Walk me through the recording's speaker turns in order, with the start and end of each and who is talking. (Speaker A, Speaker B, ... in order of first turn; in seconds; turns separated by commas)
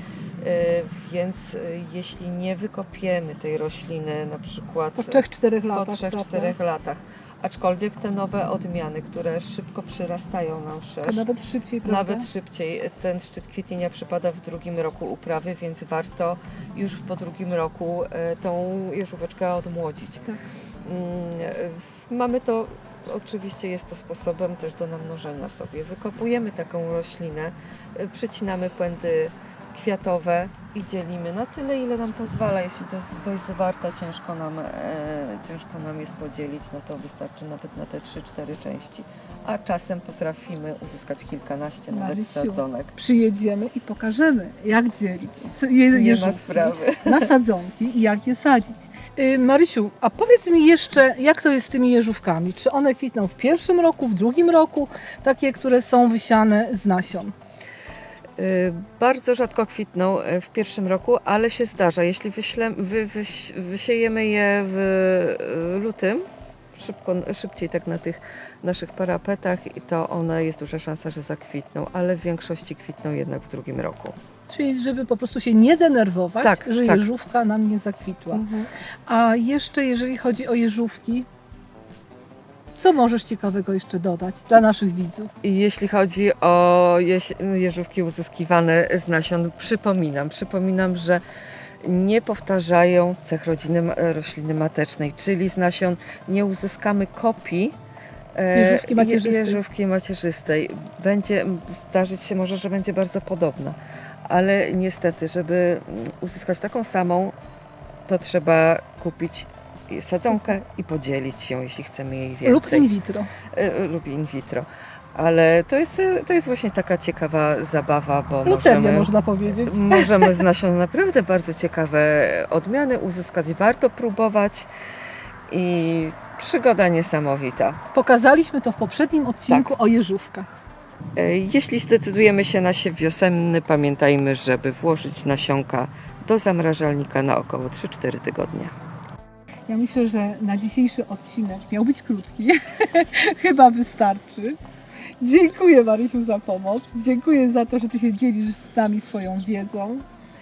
Speaker A: 0.4-11.2, Speaker B: 4.9-6.6, Speaker B: 11.0-12.3, Speaker A: 11.8-43.0, Speaker B: 41.9-57.3, Speaker A: 45.9-47.3, Speaker A: 58.4-74.2, Speaker B: 74.5-78.4, Speaker A: 76.4-77.1, Speaker A: 78.3-78.7, Speaker B: 79.1-81.3, Speaker B: 82.8-85.3, Speaker A: 85.4-91.2, Speaker A: 91.8-97.8, Speaker A: 98.3-107.4, Speaker B: 98.5-99.6, Speaker A: 108.1-112.9, Speaker B: 110.3-110.5, Speaker B: 112.4-113.3, Speaker A: 113.5-124.7, Speaker B: 118.4-120.4, Speaker A: 125.5-127.8, Speaker B: 127.9-130.6, Speaker A: 131.1-138.7, Speaker B: 139.7-144.6, Speaker B: 145.2-150.0